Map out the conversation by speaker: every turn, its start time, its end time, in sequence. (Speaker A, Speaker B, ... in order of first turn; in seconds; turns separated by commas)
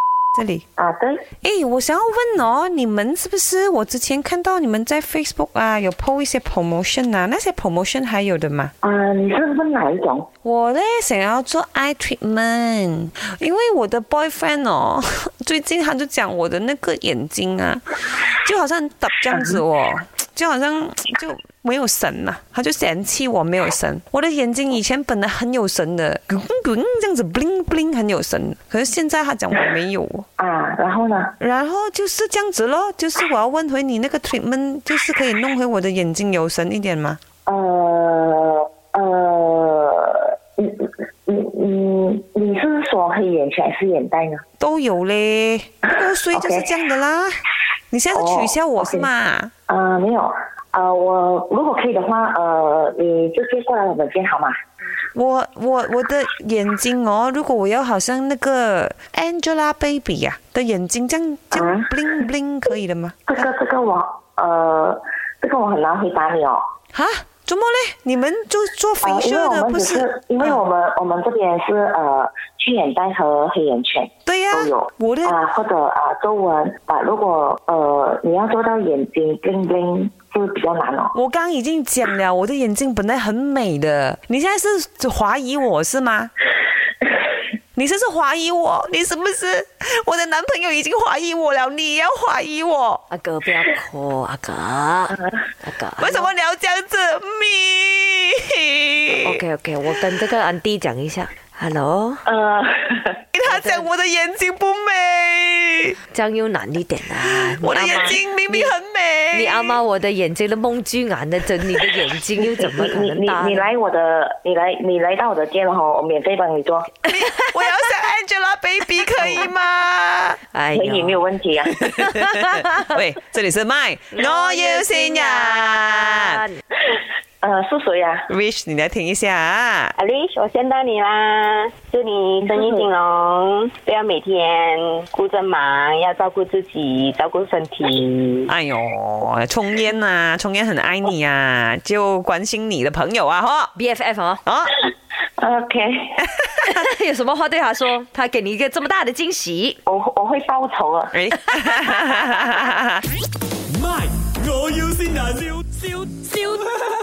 Speaker A: 0.3-0.6, Speaker B: 0.8-1.2, Speaker A: 1.4-8.7, Speaker B: 8.8-10.3, Speaker A: 10.4-30.3, Speaker B: 19.3-19.6, Speaker B: 30.4-31.4, Speaker A: 31.4-37.2, Speaker B: 37.5-44.4, Speaker A: 44.6-49.5, Speaker B: 45.9-46.7, Speaker B: 48.1-49.1, Speaker B: 49.7-54.6, Speaker A: 55.1-63.3, Speaker B: 61.5-62.0, Speaker B: 63.3-66.6, Speaker A: 66.9-70.6, Speaker B: 69.0-81.2, Speaker A: 74.3-75.4, Speaker A: 81.1-86.3, Speaker A: 87.8-93.0, Speaker C: 93.1-96.3, Speaker A: 96.0-99.4, Speaker C: 99.2-102.2, Speaker B: 102.2-103.2, Speaker A: 103.3-106.0, Speaker C: 103.5-103.9, Speaker C: 106.1-108.7, Speaker A: 107.2-109.8, Speaker C: 109.3-113.7, Speaker B: 112.4-116.9, Speaker A: 117.0-120.4, Speaker C: 120.5-121.2, Speaker B: 120.7-121.8, Speaker C: 121.8-122.8, Speaker A: 122.1-126.4, Speaker C: 124.2-126.6, Speaker B: 127.4-128.3, Speaker A: 128.3-129.9, Speaker D: 130.0-138.5, Speaker B: 132.4-132.9, Speaker A: 138.5-143.7, Speaker C: 143.8-144.4, Speaker A: 144.5-144.8, Speaker B: 145.4-146.3, Speaker C: 146.5-149.8, Speaker B: 149.9-151.2, Speaker A: 151.1-153.0, Speaker E: 153.7-156.5